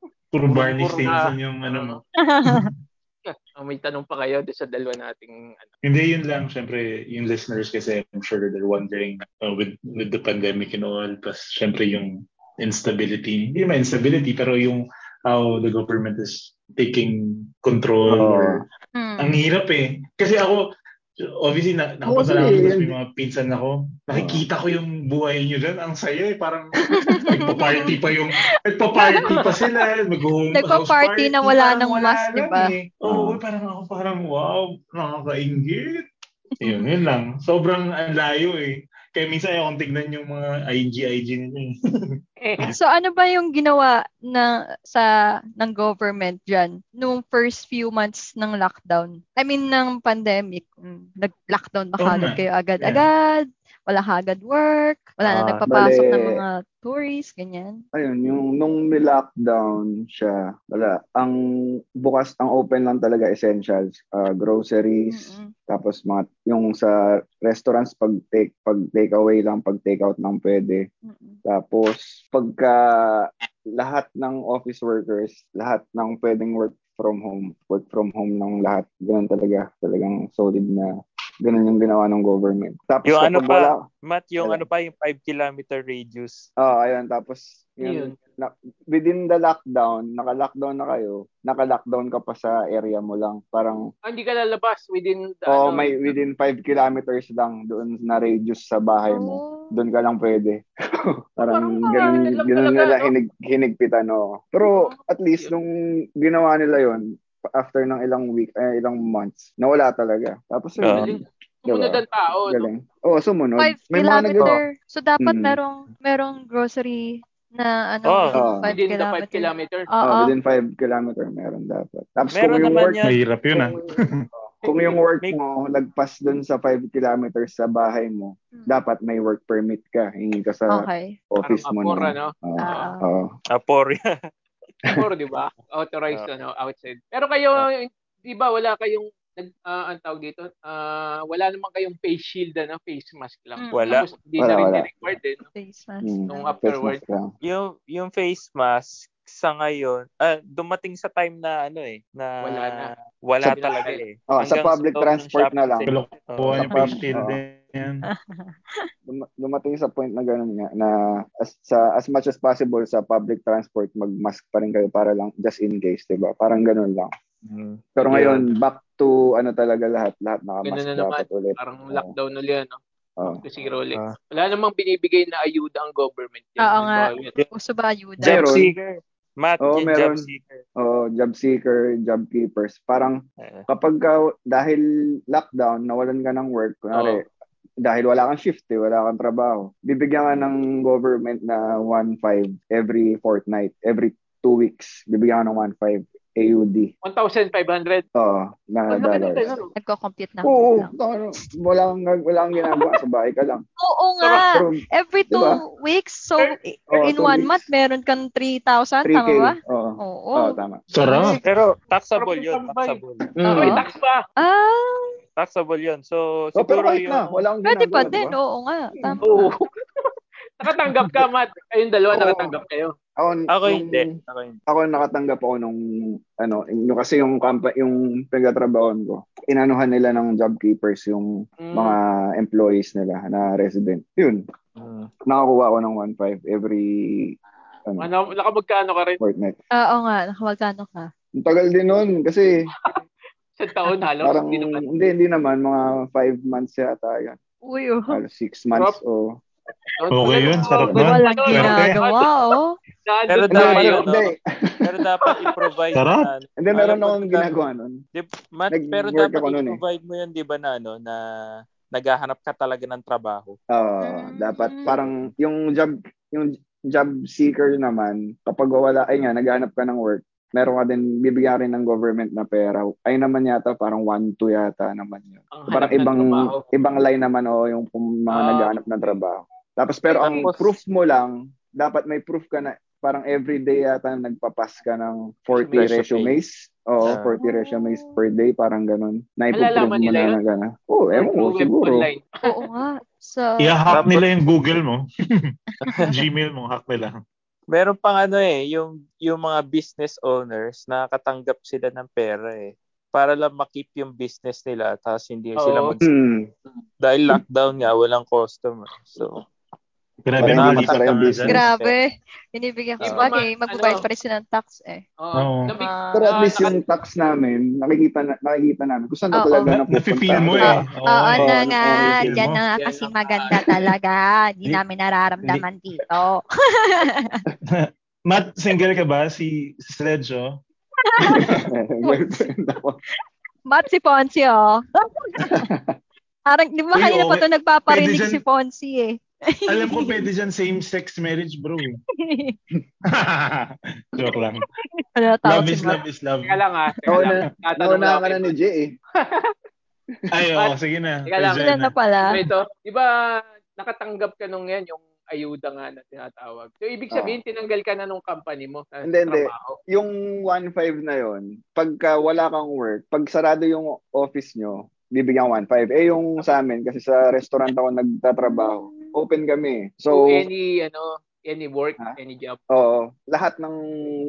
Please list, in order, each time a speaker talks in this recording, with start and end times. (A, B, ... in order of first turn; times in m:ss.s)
0:00.3-0:02.7 A
0:00.5-0:02.0 B
0:02.2-0:02.7 C
0:03.2-0:05.7 B
0:05.8-0:18.6 A
0:18.1-0:18.6 D
0:18.9-0:19.4 C
0:19.2-0:20.6 A
0:21.4-0:36.0 A
0:22.0-0:22.9 D
0:24.1-0:24.4 D
0:26.9-0:28.0 C
0:28.9-0:29.7 C
0:29.2-0:29.6 B
0:30.5-0:32.7 C
0:33.0-0:33.4 D
0:36.6-0:42.7 A
0:36.6-0:36.8 C
0:42.4-0:42.7 B
0:42.7-0:57.8 C
0:52.0-0:53.0 A
0:55.3-0:55.6 E
0:55.7-0:56.4 D
0:57.9-1:01.4 D
1:02.0-1:10.8 D
1:05.1-1:05.5 C
1:11.0-1:11.4 C
1:11.4-1:20.8 D
1:21.4-1:23.8 D
1:23.0-1:26.5 E
1:26.6-1:33.8 D
1:27.8-1:28.2 B
1:34.1-1:36.1 B
1:35.5-1:40.6 D
1:39.1-1:39.7 C
1:41.4-1:45.7 D
1:41.4-1:43.1 B
1:44.6-1:45.5 B
1:46.2-1:54.6 D
1:50.8-1:51.1 E
1:50.9-1:52.7 B
1:53.6-2:00.3 C
1:55.2-1:55.6 D
1:58.0-1:58.4 E
1:58.3-1:58.6 D
1:58.6-1:59.9 B
2:00.0-2:03.0 D
2:02.3-2:03.2 E
2:03.0-2:04.2 A
2:03.5-2:13.3 D
2:04.6-2:05.0 B
2:08.5-2:08.8 C
2:10.7-2:11.2 C
2:11.4-2:12.8 B
2:12.6-2:13.0 C
2:13.5-2:14.0 E
2:14.9-2:25.4 B
2:23.6-2:24.0 C
2:23.7-2:24.0 E
2:24.4-2:24.9 D
2:25.5-2:26.6 C
2:26.0-2:27.3 D
2:26.3-2:27.0 B
2:27.4-2:36.7 E
2:32.4-2:34.0 B
2:34.3-2:35.9 D
2:35.9-2:38.0 A
2:36.5-2:37.4 D
2:38.1-2:38.9 C
2:39.1-2:47.1 D
2:47.4-2:48.4 E
2:48.0-2:52.1 D
2:50.6-2:57.4 B
2:56.6-2:58.5 C
2:58.2-3:00.6 E
2:58.2-2:58.7 D
2:59.6-3:00.2 D
3:00.8-3:07.2 D
3:03.4-3:03.6 E
3:06.9-3:07.2 B
3:07.8-3:16.9 D
3:17.0-3:18.0 B
3:18.2-3:19.6 D
3:18.9-3:19.7 B
3:19.8-3:20.9 C
3:20.4-3:23.6 D
3:23.8-3:31.4 C
3:24.2-3:24.5 B
3:24.5-3:24.8 D
3:25.3-3:25.6 D
3:26.9-3:27.6 D
3:29.0-3:30.8 D
3:30.9-3:31.4 A
3:31.4-3:33.3 E
3:32.2-3:34.2 B
3:33.4-3:33.8 D
3:33.4-3:33.8 C
3:34.4-3:35.2 C
3:35.4-3:37.4 E
3:36.6-3:38.4 D
3:37.6-3:39.5 C
3:39.2-3:42.9 B
3:42.1-3:42.5 D
3:43.2-3:44.1 D
3:43.5-3:44.6 E
3:44.7-3:45.8 D
3:46.4-3:54.4 D
3:51.6-3:52.0 B
3:54.8-3:55.1 E
3:55.3-3:57.3 D
3:58.0-3:59.2 B
3:59.2-3:59.6 D
3:59.8-4:01.1 C
4:01.4-4:02.5 D
4:03.6-4:04.8 B
4:04.2-4:07.4 D
4:07.7-4:08.2 C
4:08.1-4:09.4 D
4:10.0-4:12.3 B
4:10.1-4:12.0 A
4:10.7-4:11.0 D
4:11.0-4:12.7 C
4:13.0-4:14.2 B
4:13.3-4:14.2 E
4:13.5-4:14.4 D
4:14.8-4:17.4 E
4:15.9-4:16.3 A
4:16.6-4:18.0 D
4:18.1-4:21.2 E
4:18.7-4:19.8 D
4:21.9-4:23.6 E
4:23.7-4:52.0 D
4:24.0-4:24.8 C
4:35.5-4:36.6 B
4:38.3-4:39.2 B
4:40.1-4:40.5 B
4:40.2-4:40.7 E
4:45.5-4:45.9 B
4:45.8-4:46.4 E
4:47.0-4:47.3 E
4:47.4-4:48.2 C
4:49.5-4:50.4 B
4:51.1-4:52.7 B
4:52.4-4:53.8 C
4:53.6-4:55.0 A
4:53.9-4:54.2 E
4:55.8-4:56.2 C
4:55.8-4:56.1 E
4:56.1-4:57.2 A
4:57.7-5:06.1 E
5:05.6-5:06.0 B
5:06.0-5:06.5 D
5:07.0-5:09.4 E
5:10.2-5:11.6 A
5:10.4-5:11.7 D
5:10.4-5:11.9 E
5:11.5-5:15.0 C
5:13.1-5:14.0 B
5:15.2-5:16.8 B
5:15.3-5:15.7 A
5:15.8-5:16.3 C
5:16.1-5:20.8 D
5:19.3-5:19.8 C
5:19.9-5:22.6 A
5:20.6-5:27.4 C
5:21.4-5:22.4 D
5:22.7-5:23.8 B
5:27.8-5:30.6 A
5:31.1-5:31.5 C
5:31.2-5:31.6 A
5:31.3-5:33.0 D
5:32.0-5:32.5 C
5:33.6-5:35.6 C
5:35.5-5:35.8 D
5:36.5-5:40.2 C
5:36.9-5:38.4 A
5:39.7-5:42.0 A
5:42.2-5:42.6 C
5:43.1-5:44.6 A
5:45.1-5:46.0 C
5:45.4-5:46.6 A
5:46.4-5:48.5 B
5:47.1-5:48.9 D
5:49.2-5:49.5 B
5:50.3-5:51.9 A
5:51.2-5:51.6 B
5:51.6-5:52.3 C
5:52.2-5:53.1 B
5:53.8-5:59.8 B
5:59.1-6:10.4 D
6:08.4-6:09.2 C
6:10.1-6:12.6 B
6:12.7-6:13.8 D